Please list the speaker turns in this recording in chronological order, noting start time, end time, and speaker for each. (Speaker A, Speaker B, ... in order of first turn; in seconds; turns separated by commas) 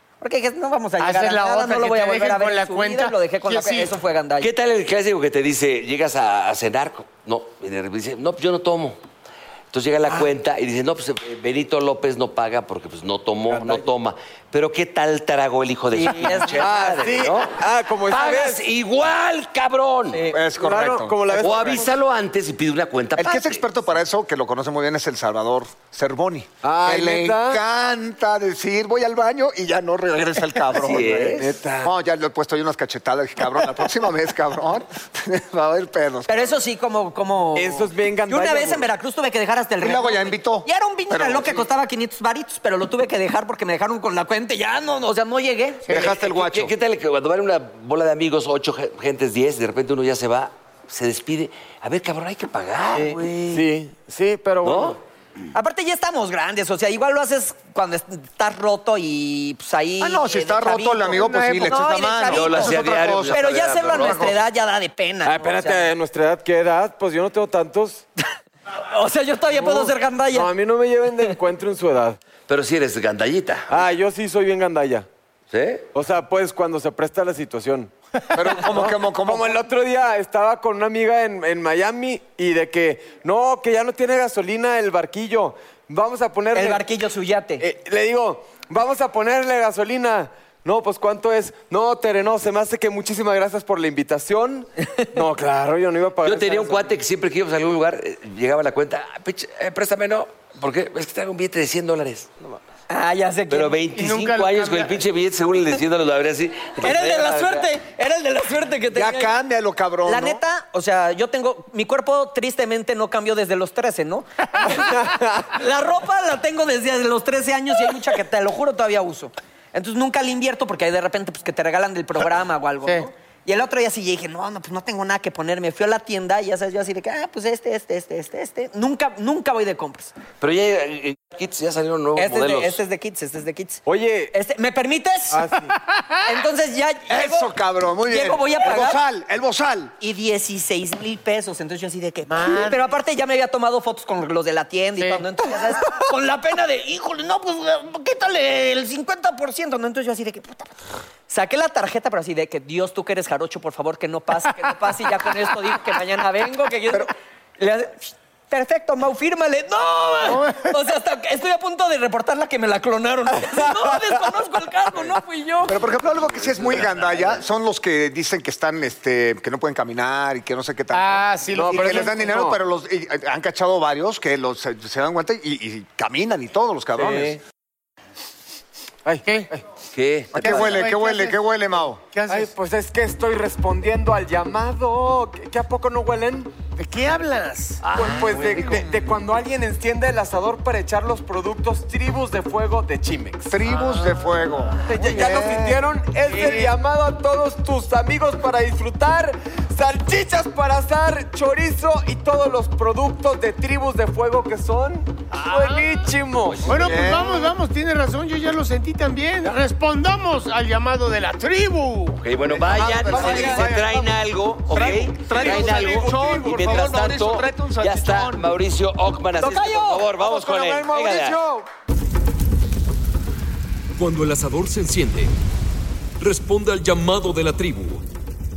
Speaker A: 0.2-4.5, Speaker B: 1.0-3.9, Speaker C: 4.4-9.0, Speaker C: 9.7-20.2, Speaker D: 13.5-13.8, Speaker A: 15.9-16.9, Speaker D: 16.6-18.6, Speaker A: 20.1-20.4, Speaker E: 20.3-21.8, Speaker D: 20.6-21.9, Speaker C: 21.4-23.6, Speaker E: 23.2-36.5, Speaker D: 26.6-27.6, Speaker C: 30.7-31.9, Speaker A: 36.3-45.9, Speaker D: 37.5-38.9, Speaker E: 39.8-41.7, Speaker E: 45.9-46.7, Speaker C: 45.9-53.6, Speaker D: 53.0-55.0, Speaker C: 54.6-55.0, Speaker A: 55.5-65.8, Speaker E: 60.0-64.4, Speaker C: 62.3-64.4, Speaker D: 65.2-68.0, Speaker A: 68.8-70.5, Speaker D: 69.5-72.2, Speaker C: 72.5-74.0, Speaker D: 73.7-75.0, Speaker C: 75.5-75.9, Speaker D: 75.9-77.9, Speaker E: 78.3-79.6, Speaker D: 78.5-86.8, Speaker A: 86.5-87.6, Speaker D: 87.6-96.9, Speaker C: 96.2-102.6, Speaker A: 102.9-103.8, Speaker C: 103.5-107.7, Speaker B: 103.9-104.9, Speaker A: 106.8-109.3, Speaker E: 108.9-110.4, Speaker A: 110.0-130.1, Speaker D: 114.8-115.4, Speaker C: 130.4-132.8, Speaker A: 132.2-135.4, Speaker D: 133.8-134.3, Speaker D: 135.3-135.7, Speaker B: 135.7-136.3, Speaker A: 136.2-137.5, Speaker E: 137.1-139.9, Speaker A: 138.1-139.0, Speaker A: 140.0-150.7, Speaker B: 142.3-142.9, Speaker B: 145.0-145.2, Speaker A: 151.3-165.8, Speaker B: 160.3-160.6, Speaker E: 165.7-177.4, Speaker B: 170.9-172.3, Speaker D: 171.5-172.6, Speaker D: 177.0-177.4, Speaker D: 179.0-179.6, Speaker C: 179.9-180.8, Speaker E: 180.3-182.0, Speaker B: 180.3-181.4, Speaker B: 182.1-182.5, Speaker D: 182.3-186.5, Speaker B: 186.8-187.9, Speaker C: 187.8-189.0, Speaker D: 187.9-193.9, Speaker E: 193.5-195.8, Speaker D: 194.8-206.7, Speaker B: 196.3-196.7, Speaker C: 206.4-207.2, Speaker B: 206.6-212.2, Speaker E: 206.7-207.5, Speaker C: 212.2-221.4, Speaker E: 212.4-214.1, Speaker D: 212.6-214.0, Speaker E: 214.7-218.6, Speaker D: 215.3-216.8, Speaker D: 219.4-221.6, Speaker F: 223.9-225.3, Speaker F: 226.2-228.0